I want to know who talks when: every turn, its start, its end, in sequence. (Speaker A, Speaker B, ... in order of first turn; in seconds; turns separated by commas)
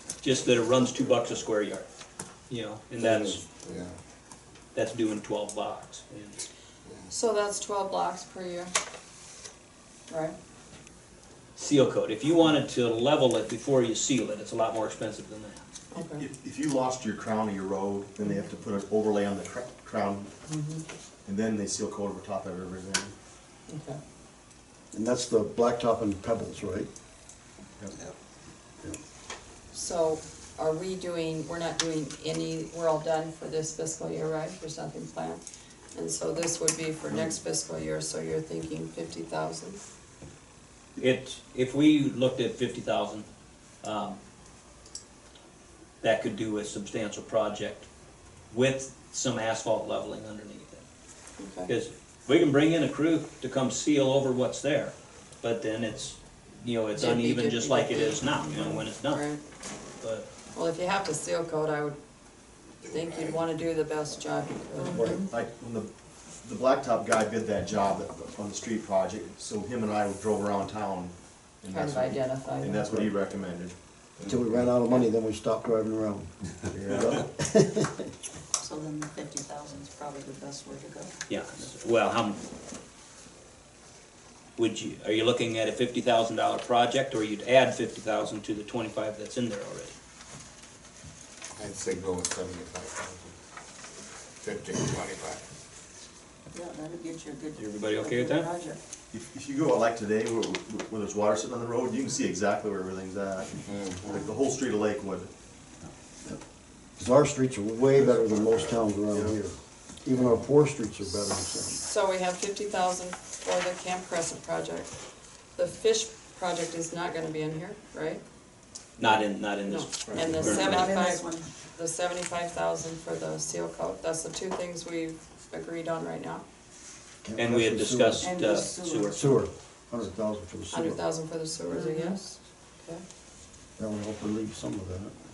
Speaker A: 0.2-1.9, Speaker A: 2.5-3.4, Speaker B: 3.0-4.0, Speaker A: 4.7-6.4, Speaker C: 7.1-8.7, Speaker C: 10.1-10.3, Speaker A: 11.6-15.6, Speaker C: 15.9-16.2, Speaker D: 16.2-20.3, Speaker C: 20.5-20.8, Speaker D: 21.2-23.1, Speaker C: 23.7-24.0, Speaker E: 24.9-26.9, Speaker C: 29.7-35.4, Speaker C: 35.9-39.8, Speaker A: 41.0-43.3, Speaker A: 43.8-44.2, Speaker A: 46.0-47.9, Speaker A: 48.5-50.8, Speaker C: 51.4-51.7, Speaker A: 51.7-59.2, Speaker C: 57.0-59.4, Speaker A: 60.0-60.3, Speaker C: 60.5-62.0, Speaker B: 62.8-63.4, Speaker C: 62.9-65.3, Speaker F: 64.8-65.1, Speaker E: 65.0-65.2, Speaker D: 65.2-65.9, Speaker D: 66.4-74.2, Speaker C: 71.7-73.0, Speaker E: 74.3-76.3, Speaker D: 76.7-77.3, Speaker E: 76.8-78.1, Speaker F: 78.6-81.1, Speaker A: 81.3-82.4, Speaker A: 84.6-90.0, Speaker B: 91.6-93.3, Speaker B: 94.4-95.4, Speaker F: 96.5-98.8, Speaker A: 97.5-98.5, Speaker D: 99.1-105.3, Speaker B: 103.7-104.0, Speaker E: 107.0-111.8, Speaker C: 111.7-114.9, Speaker C: 115.6-118.2, Speaker A: 119.0-120.9, Speaker C: 119.7-126.4, Speaker F: 120.5-121.5, Speaker E: 127.2-128.3, Speaker A: 127.4-129.3, Speaker F: 128.2-129.4, Speaker E: 129.1-131.0, Speaker C: 130.7-133.0, Speaker F: 131.7-132.2, Speaker E: 133.8-135.1